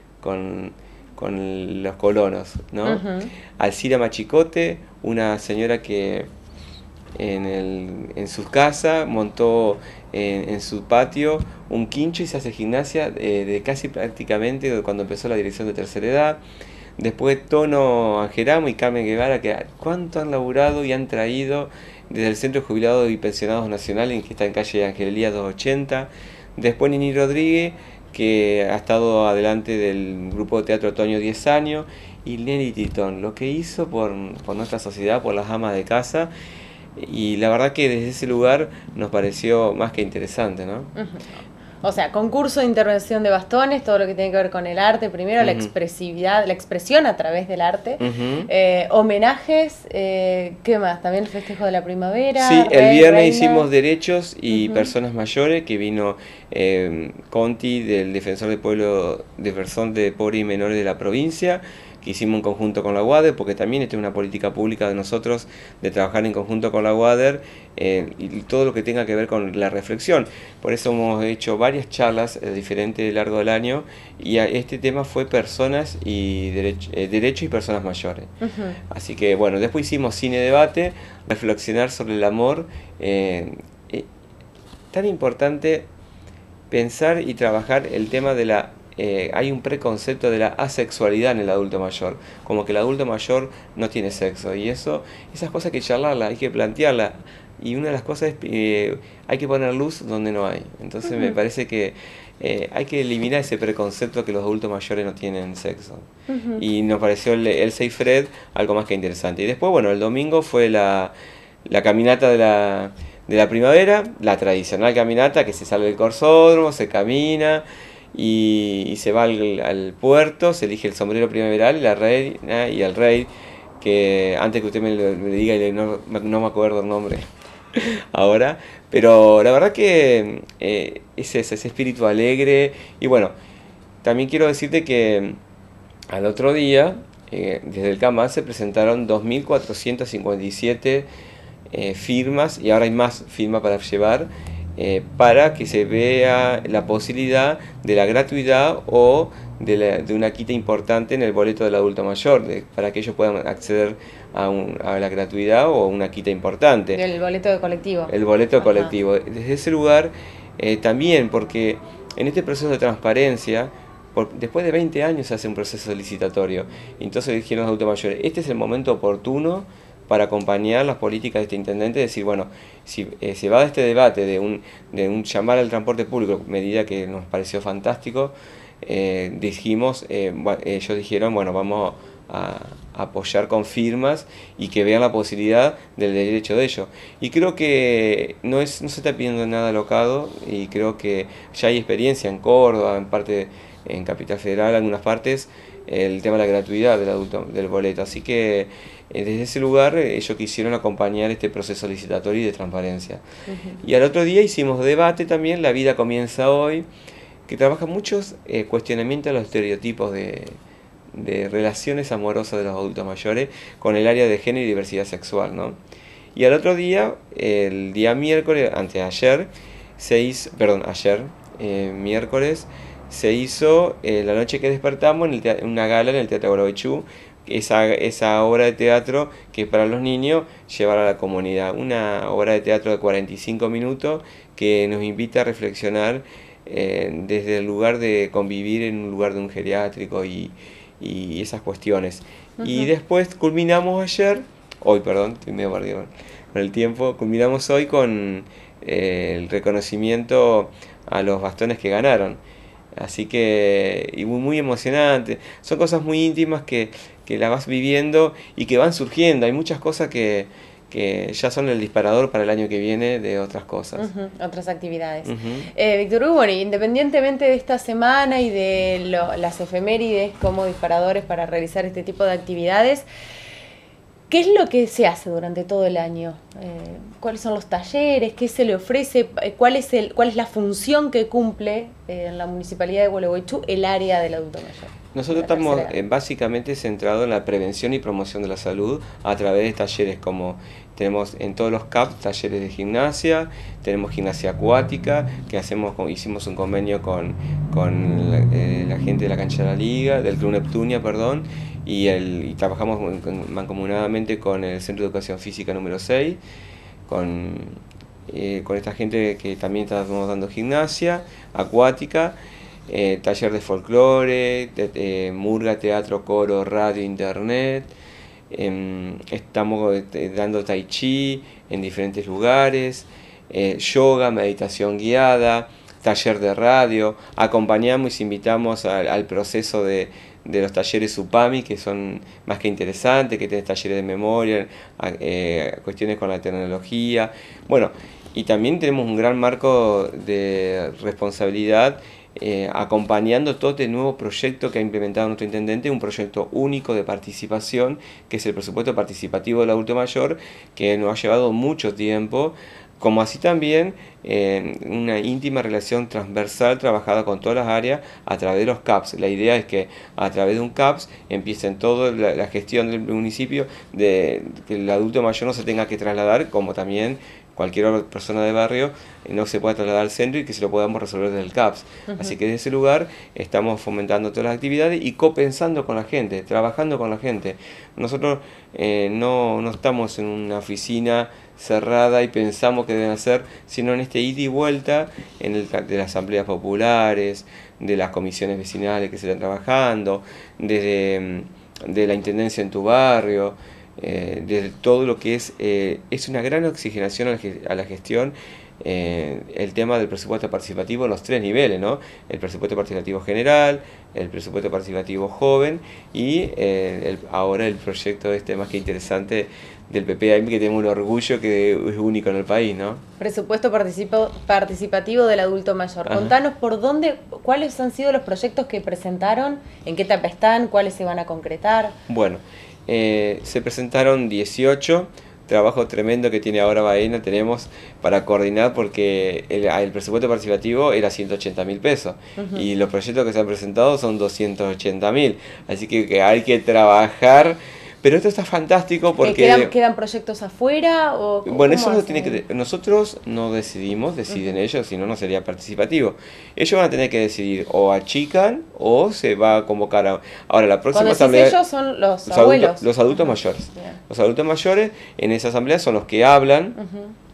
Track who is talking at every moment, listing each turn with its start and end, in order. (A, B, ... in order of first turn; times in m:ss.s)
0:00.2-0:03.0 A
0:02.8-0:03.3 B
0:03.6-0:06.3 A
0:07.2-0:16.4 A
0:17.0-0:36.3 A
0:37.0-0:40.9 A
0:40.9-0:53.7 B
0:45.4-0:45.7 A
0:48.0-0:48.5 A
0:52.4-1:18.3 A
0:54.5-0:54.9 B
1:18.4-1:18.8 B
1:18.9-1:24.1 A
1:24.9-1:25.9 A
1:26.7-1:51.1 A
1:41.0-1:41.4 B
1:46.3-1:46.6 B
1:51.6-2:13.3 A
2:14.0-2:15.4 A
2:16.1-2:21.1 A
2:21.7-2:37.0 A
2:36.9-2:38.9 B
2:38.1-3:23.2 A
3:23.5-3:23.8 B
3:23.8-3:26.9 A
3:27.5-3:30.6 A
3:31.1-3:35.8 A
3:36.3-4:12.4 A
4:02.6-4:02.9 B
4:13.0-4:24.1 A
4:24.0-4:33.0 B
4:25.2-4:25.7 A
4:34.3-4:45.9 B
4:45.1-5:06.4 A
5:07.1-5:12.4 A
5:12.9-5:17.9 A
5:18.5-6:53.0 A
6:12.1-6:12.3 B
6:53.2-7:01.9 B
6:56.1-6:56.3 A
7:02.1-7:19.7 A
7:12.4-7:12.7 B
7:19.2-7:22.4 B
7:21.4-7:31.6 A
7:24.3-7:24.6 B
7:30.9-7:34.0 B
7:32.3-7:36.8 A
7:36.8-7:37.1 B